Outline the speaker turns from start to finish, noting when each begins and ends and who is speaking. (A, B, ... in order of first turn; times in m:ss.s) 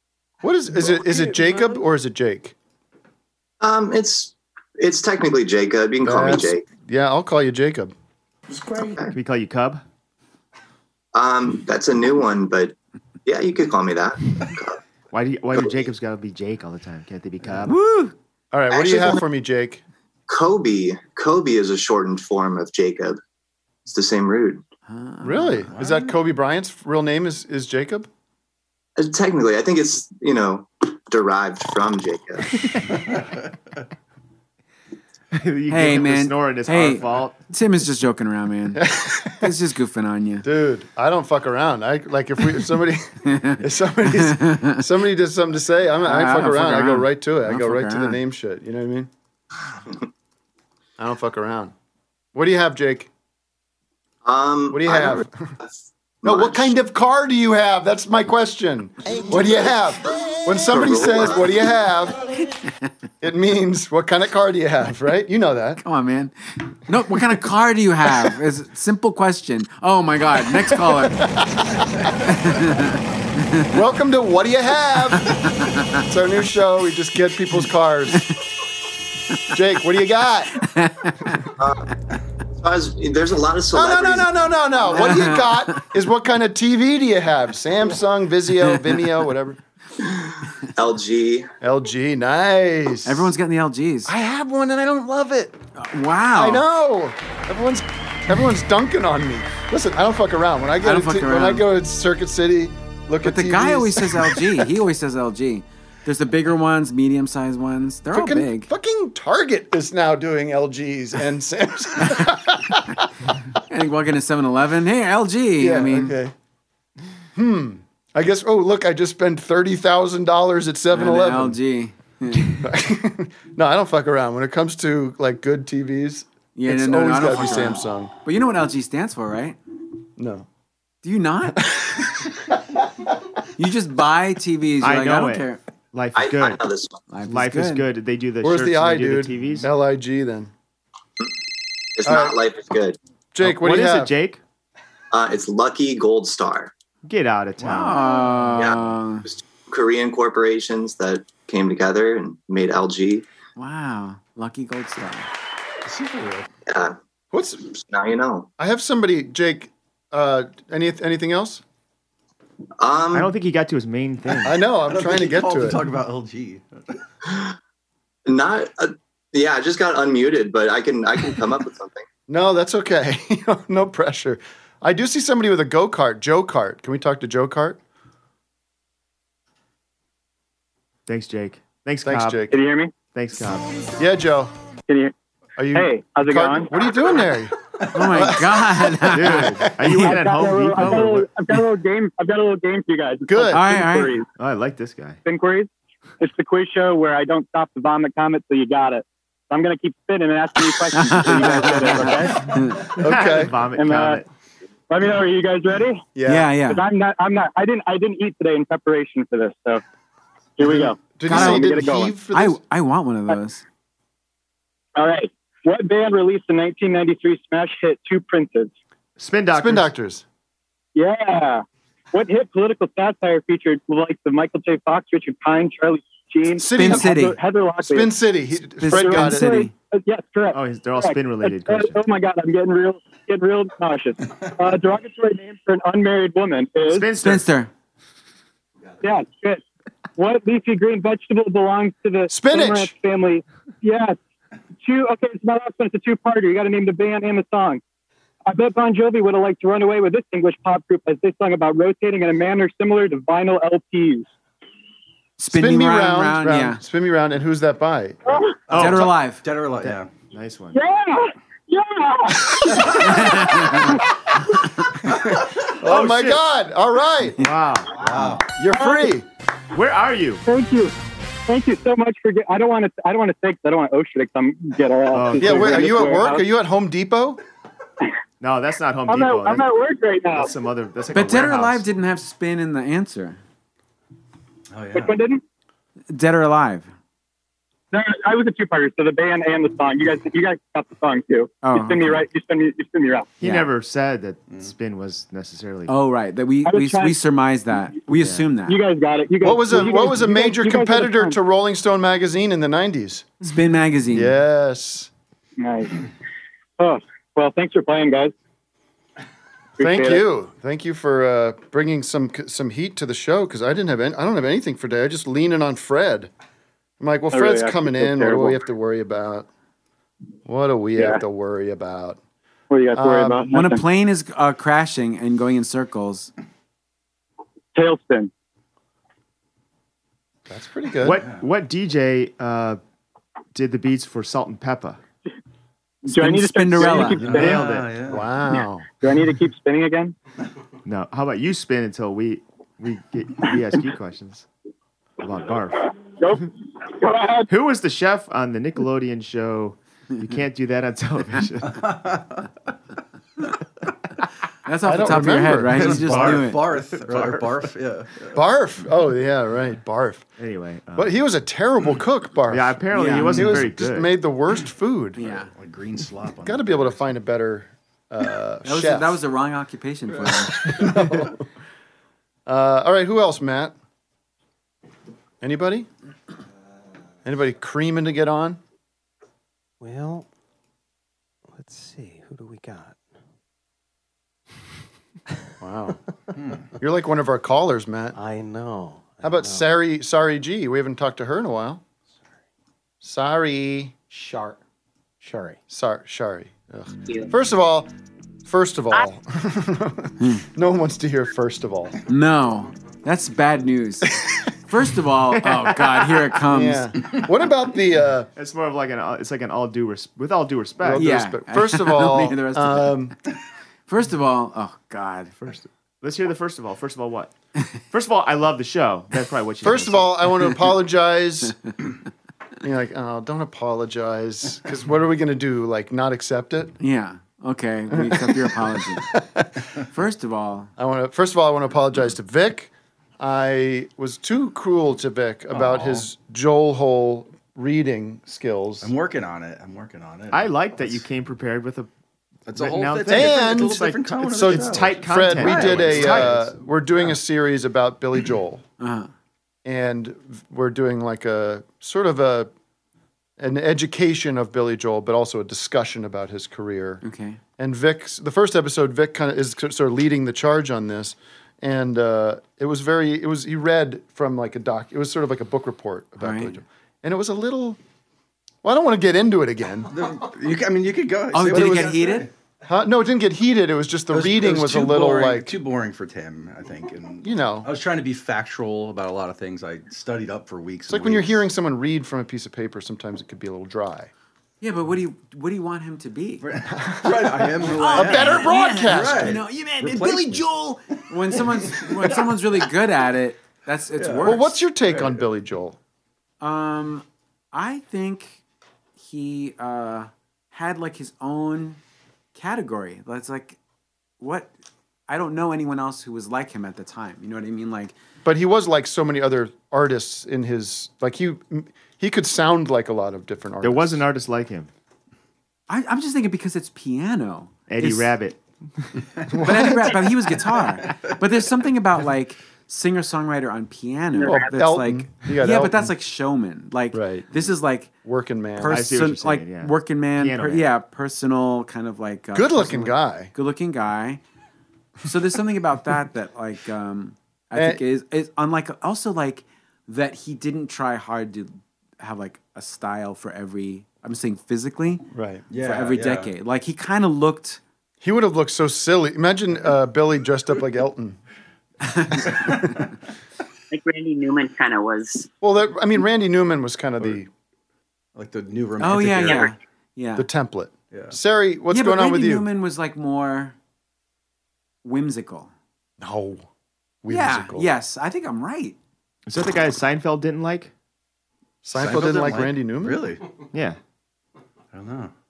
0:00.4-0:02.6 A
0:03.6-0:06.6 B
0:06.0-0:07.9 A
0:08.8-0:09.1 B
0:09.1-0:09.8 C
0:11.1-0:14.8 B
0:15.1-0:17.8 C
0:17.7-0:18.1 D
0:18.5-0:19.8 A
0:18.7-0:19.2 B
0:20.3-0:23.2 B
0:23.9-0:24.6 B
0:24.9-0:25.7 D
0:25.2-0:28.1 A
0:25.7-0:26.1 E
0:29.0-0:32.7 B
0:35.3-0:37.4 C
0:35.7-0:38.8 D
0:38.8-0:39.5 A
0:39.4-0:40.5 D
0:40.4-0:49.1 A
0:43.3-0:44.8 D
0:46.0-0:48.2 D
0:51.0-0:51.7 A
0:52.3-0:53.1 A
0:54.2-0:56.8 B
0:54.7-0:55.5 A
0:56.2-1:02.2 A
1:00.7-1:01.5 B
1:03.2-1:05.8 A
1:05.8-1:06.3 D
1:06.9-1:11.2 D
1:10.8-1:11.8 A
1:12.2-1:13.8 D
1:13.7-1:15.4 A
1:15.1-1:16.0 D
1:16.1-1:18.3 A
1:19.5-1:20.6 A
1:20.6-1:21.5 D
1:21.6-1:21.9 B
1:22.6-1:24.3 B
1:23.7-1:29.6 A
1:24.9-1:25.8 D
1:28.6-1:29.0 D
1:30.0-1:31.5 B
1:31.6-1:33.3 A
1:33.0-1:34.1 D
1:34.1-1:35.6 A
1:35.8-1:36.6 D
1:36.4-1:44.4 A
1:40.8-1:41.6 D
1:43.2-1:48.7 D
1:48.1-1:52.9 A
1:53.7-1:56.2 D
1:55.6-1:56.3 A
1:57.4-2:01.6 A
2:00.9-2:02.6 D
2:02.6-2:08.1 A
2:06.6-2:09.6 D
2:10.2-2:10.5 A
2:11.0-2:11.6 D
2:11.6-2:12.3 A
2:13.6-2:15.6 D
2:14.8-2:16.6 C
2:16.2-2:17.0 B
2:17.1-2:17.8 D
2:17.3-2:19.7 C
2:18.4-2:20.5 A
2:22.0-2:23.0 B
2:22.0-2:22.4 A
2:23.3-2:24.1 A
2:23.4-2:24.4 C
2:25.1-2:26.7 B
2:27.0-2:28.6 C
2:27.6-2:29.3 D
2:28.6-2:33.2 B
2:33.6-2:35.3 D
2:35.9-2:36.5 E
2:36.7-2:37.0 B
2:37.3-2:37.8 A
2:37.9-2:38.5 B
2:38.6-2:41.6 A
2:42.8-2:43.3 B
2:43.1-2:44.6 C
2:44.4-2:45.8 A
2:44.9-2:46.7 E
2:48.3-2:52.1 B
2:52.3-2:57.8 A
3:01.1-3:02.5 C
3:02.0-3:02.6 A
3:02.5-3:02.9 F
3:03.1-3:03.9 C
3:04.0-3:04.5 A
3:04.9-3:05.1 F
3:05.6-3:09.1 A
3:05.7-3:06.7 F
3:07.9-3:10.2 D
3:09.1-3:11.4 C
3:10.0-3:14.3 F
3:13.3-3:13.7 A
3:13.5-3:14.1 D
3:14.4-3:15.2 C
3:15.2-3:15.7 F
3:16.2-3:22.5 F
3:20.9-3:22.8 D
3:21.5-3:22.3 C
3:22.9-3:24.3 C
3:23.0-3:23.6 A
3:23.7-3:24.2 F
3:24.9-3:26.0 F
3:26.2-3:26.5 A
3:26.3-3:26.8 D
3:26.7-3:29.8 F
3:30.6-3:32.1 F
3:30.6-3:32.6 A
3:31.3-3:31.7 D
3:32.3-3:33.6 D
3:35.0-3:38.7 F
3:39.2-3:39.9 C
3:39.5-3:40.2 A
3:41.0-3:48.1 F
3:46.6-3:47.1 A
3:46.7-3:47.4 D
3:47.8-3:49.6 A
3:48.8-3:49.7 D
3:48.9-3:57.1 F
3:50.5-3:52.0 C
3:56.8-3:57.5 C
3:57.2-3:57.7 D
3:59.0-3:59.6 F
4:00.2-4:04.2 F
4:02.3-4:02.9 A
4:04.8-4:07.8 F
4:08.5-4:14.3 F
4:15.4-4:16.8 D
4:15.5-4:18.2 A
4:18.3-4:18.6 F
4:18.7-4:20.1 E
4:18.7-4:19.1 C
4:18.8-4:19.4 D
4:19.8-4:20.8 C
4:20.7-4:23.0 F
4:23.0-4:24.0 D
4:25.8-4:27.5 A
4:25.8-4:26.4 C
4:27.4-4:28.4 C
4:28.0-4:28.4 E
4:28.6-4:29.3 A
4:28.7-4:29.1 F
4:29.7-4:30.4 C
4:30.5-4:30.9 F
4:31.5-4:36.4 F
4:35.1-4:36.1 C
4:35.4-4:37.4 A
4:38.4-4:39.7 C
4:39.1-4:40.5 F
4:40.3-4:41.9 C
4:41.1-4:43.4 D
4:44.7-4:45.2 E
4:44.9-4:45.4 F
4:46.1-4:46.9 D
4:47.9-4:53.3 F
4:51.6-4:52.2 D
4:53.4-4:55.9 C
4:53.4-4:53.7 D
4:55.9-4:58.8 D
4:56.6-4:57.2 F
4:58.2-4:58.4 C
4:58.7-5:01.4 F
4:59.4-5:03.3 A
5:03.4-5:04.3 D
5:04.1-5:05.1 A
5:05.6-5:06.0 F
5:06.8-5:08.3 F
5:09.8-5:10.2 F
5:09.8-5:16.3 A
5:17.0-5:19.5 A
5:17.3-5:18.6 F
5:20.5-5:22.2 A
5:21.0-5:21.2 F
5:22.7-5:23.8 F
5:23.0-5:23.5 A
5:23.5-5:26.3 D
5:27.8-5:28.3 F
5:30.5-5:31.2 A
5:31.0-5:32.8 C
5:33.5-5:35.0 C
5:36.1-5:37.2 D
5:36.1-5:37.7 F
5:37.2-5:38.2 E
5:37.2-5:38.0 C
5:38.1-5:38.9 A
5:39.0-5:40.1 F
5:40.8-5:44.5 C
5:45.2-5:46.4 C
5:46.2-5:47.5 F
5:47.5-5:51.8 C
5:51.7-5:52.5 E
5:54.7-5:56.6 D
5:54.8-5:56.4 A
5:55.7-5:58.3 E
5:57.0-5:57.4 C
5:58.3-6:00.3 A
6:00.4-6:01.1 C
6:01.0-6:05.2 A
6:02.5-6:04.1 C
6:02.9-6:03.6 D
6:05.2-6:05.5 D
6:05.2-6:07.1 E
6:06.4-6:09.2 A
6:08.6-6:10.8 D
6:10.7-6:11.4 A
6:12.5-6:13.8 A
6:15.4-6:15.9 A
6:17.2-6:18.6 A
6:19.8-6:20.3 G
6:21.5-6:23.0 G
6:25.6-6:26.0 A
6:26.8-6:28.2 A
6:28.2-6:29.7 G
6:29.2-6:31.8 A
6:33.0-6:34.0 A
6:34.1-6:34.6 G
6:35.2-6:35.6 G
6:35.7-6:37.9 A
6:38.4-6:42.0 A
6:42.1-6:46.9 D
6:45.4-6:46.2 C
6:46.5-6:48.3 A
6:48.4-6:51.1 C
6:50.8-6:53.2 A
6:50.9-6:53.0 D
6:53.9-6:55.4 D
6:55.4-6:57.3 C
6:57.9-7:00.2 C
6:59.6-7:01.6 A
7:02.6-7:06.8 A
7:06.8-7:09.1 D
7:07.9-7:09.5 A
7:09.9-7:10.7 D
7:10.8-7:18.9 A
7:15.5-7:16.0 E
7:18.8-7:21.0 E
7:20.3-7:21.9 C
7:22.5-7:26.4 E
7:22.6-7:26.5 C
7:23.1-7:28.6 A
7:28.8-7:29.1 D
7:29.6-7:32.5 A
7:33.4-7:37.0 A
7:37.0-7:37.4 D
7:37.6-7:47.8 A
7:46.2-7:46.6 D
7:48.6-7:49.9 A
7:49.9-7:52.3 E
7:51.3-7:52.3 D
7:51.5-7:52.0 A
7:52.6-7:55.6 A
7:54.1-8:01.5 E
7:57.2-7:57.7 A
8:00.9-8:04.1 A
8:04.6-8:06.4 D
8:06.4-8:10.5 E
8:06.7-8:09.4 A
8:07.6-8:14.6 D
8:11.3-8:12.2 E
8:14.0-8:15.2 E
8:14.2-8:15.8 A
8:16.4-8:18.4 D
8:19.0-8:21.8 D
8:22.4-8:23.6 D
8:24.2-8:24.5 D
8:25.1-8:28.0 D
8:28.2-8:34.0 A
8:33.6-8:34.7 C
8:35.7-8:38.2 D
8:37.7-8:39.1 C
8:39.3-8:40.0 A
8:39.4-8:47.9 D
8:44.2-8:44.5 H
8:44.2-8:45.9 A
8:46.9-8:47.3 A
8:48.0-8:48.8 A
8:48.6-8:54.2 D
8:48.7-8:50.7 C
8:52.3-8:53.3 A
8:55.0-9:05.0 D
8:57.5-8:57.8 A
9:05.1-9:05.4 A
9:05.5-9:06.3 E
9:05.6-9:07.6 D
9:08.0-9:11.2 A
9:11.8-9:12.4 D
9:12.4-9:12.8 E
9:13.7-9:15.3 H
9:15.4-9:17.3 A
9:18.2-9:19.5 E
9:18.8-9:20.3 D
9:19.2-9:19.5 H
9:20.2-9:22.5 A
9:20.9-9:21.2 E
9:21.7-9:23.6 D
9:24.8-9:25.5 D
9:26.0-9:26.5 A
9:27.0-9:27.7 A
9:27.1-9:28.8 D
9:29.3-9:30.7 C
9:31.6-9:33.0 A
9:31.8-9:33.2 E
9:34.7-9:35.1 E